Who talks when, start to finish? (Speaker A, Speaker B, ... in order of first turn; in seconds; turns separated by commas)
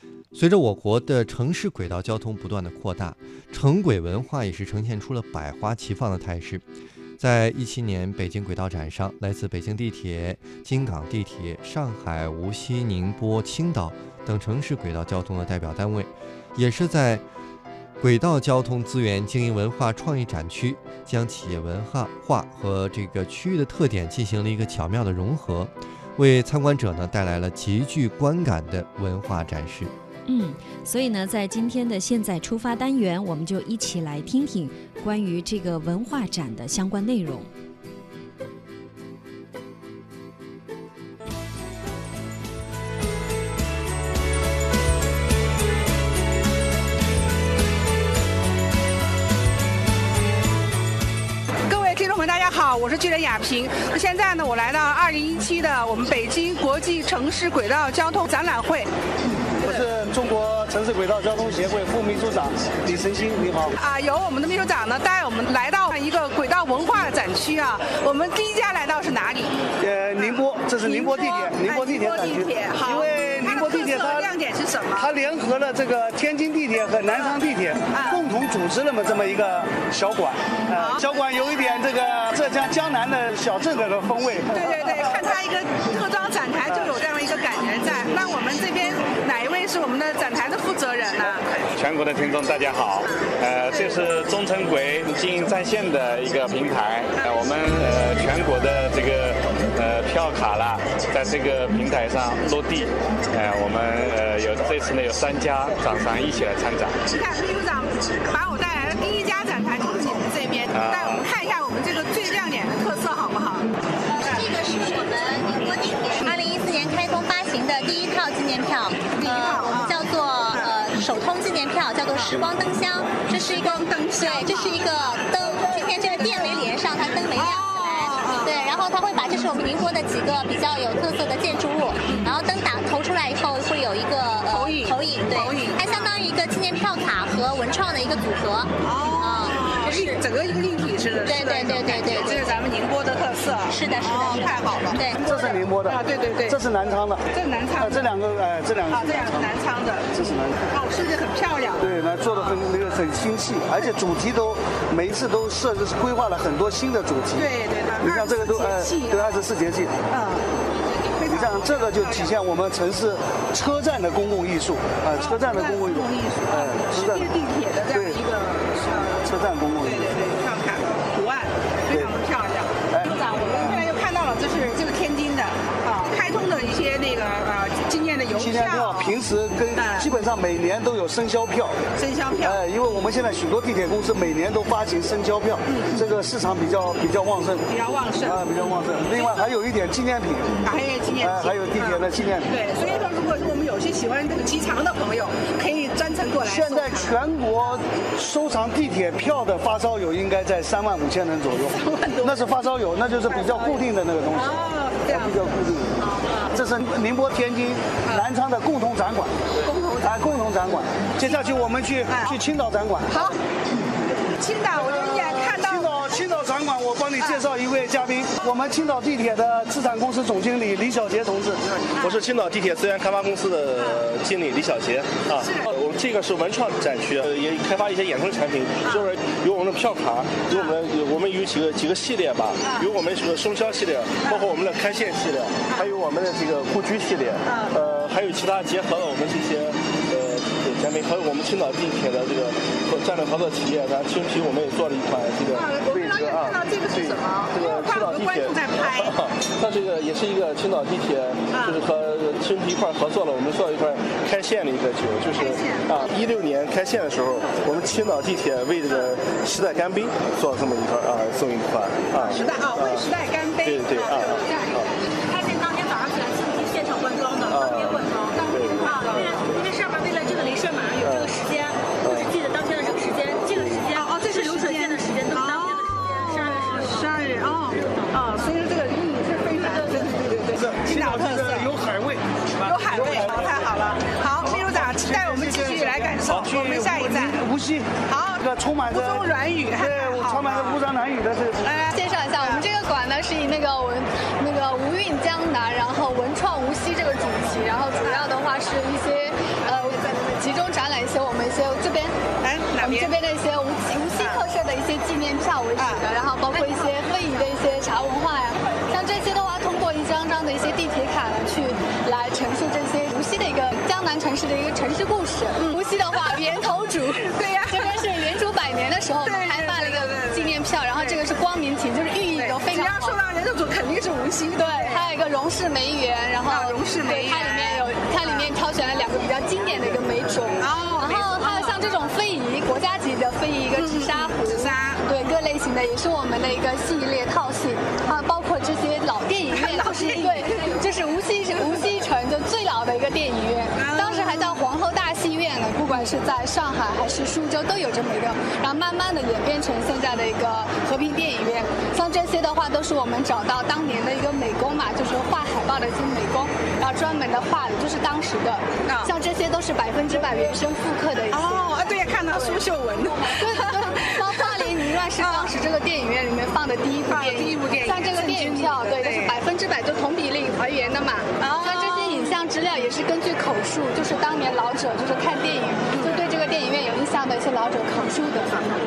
Speaker A: 0.3-6.6, Speaker A: 7.2-17.2, Speaker A: 18.0-29.9, Speaker B: 30.3-37.5, Speaker C: 51.7-58.9, Speaker D: 59.6-63.8, Speaker C: 63.8-69.7, Speaker D: 69.8-74.3, Speaker C: 70.2-75.2, Speaker D: 74.9-84.7, Speaker C: 77.9-78.2, Speaker C: 80.8-81.0, Speaker C: 84.5-91.5, Speaker E: 91.7-107.0, Speaker C: 107.1-113.7, Speaker E: 110.7-111.2, Speaker F: 114.2-140.2, Speaker C: 114.2-114.5, Speaker C: 119.2-120.8, Speaker C: 122.1-122.5, Speaker C: 123.3-128.9, Speaker C: 132.0-132.4, Speaker C: 134.4-136.2, Speaker C: 138.8-146.6, Speaker F: 141.2-142.6, Speaker F: 143.7-145.2, Speaker D: 145.1-147.2, Speaker C: 147.3-148.1, Speaker D: 147.8-149.5, Speaker C: 148.9-152.6, Speaker D: 150.1-150.6, Speaker D: 151.8-159.9, Speaker C: 157.4-159.4, Speaker C: 160.1-160.4, Speaker C: 161.2-162.3, Speaker D: 161.3-167.3, Speaker C: 165.1-179.2, Speaker D: 167.9-168.2, Speaker D: 169.2-170.2, Speaker D: 172.9-173.8, Speaker D: 178.3-181.8, Speaker C: 179.8-180.1, Speaker C: 182.0-182.7, Speaker D: 182.4-190.6, Speaker C: 185.7-186.0, Speaker C: 187.7-188.6, Speaker C: 189.1-189.6, Speaker C: 190.6-197.2, Speaker D: 191.2-192.5, Speaker D: 196.4-205.9, Speaker C: 201.7-202.6, Speaker C: 203.3-206.5, Speaker D: 206.5-209.4, Speaker C: 209.6-210.4, Speaker D: 210.0-213.3, Speaker C: 211.2-212.4, Speaker C: 213.1-213.4, Speaker C: 214.3-216.2, Speaker D: 214.8-221.7, Speaker C: 217.2-217.5, Speaker G: 222.0-263.1, Speaker C: 223.8-224.0, Speaker C: 225.3-225.7, Speaker C: 228.8-229.1, Speaker C: 232.6-232.9, Speaker C: 234.2-234.5, Speaker C: 237.4-237.7, Speaker C: 245.5-249.1, Speaker C: 251.5-251.8, Speaker C: 255.3-255.9, Speaker C: 262.2-265.3, Speaker G: 263.6-264.9, Speaker H: 265.3-268.1, Speaker G: 267.5-269.4, Speaker C: 268.2-269.6, Speaker H: 269.5-276.6, Speaker G: 271.0-271.4, Speaker G: 272.0-272.4, Speaker G: 273.5-273.9, Speaker C: 273.9-281.7, Speaker D: 280.5-283.6, Speaker C: 282.6-287.4, Speaker D: 284.5-291.7, Speaker C: 288.1-290.8, Speaker C: 291.6-292.6, Speaker I: 291.9-302.2, Speaker C: 302.4-303.1, Speaker I: 302.8-323.2, Speaker C: 305.8-306.0, Speaker C: 317.2-318.0, Speaker C: 319.2-321.2, Speaker C: 322.4-325.1, Speaker I: 324.6-362.6, Speaker C: 326.5-328.5, Speaker C: 330.6-331.9, Speaker C: 333.8-335.1, Speaker C: 339.5-340.8, Speaker C: 343.8-344.6, Speaker C: 358.9-359.1, Speaker C: 361.3-364.6, Speaker I: 363.3-378.7, Speaker C: 365.2-365.5, Speaker C: 367.1-369.4, Speaker C: 371.4-372.4, Speaker C: 375.9-376.2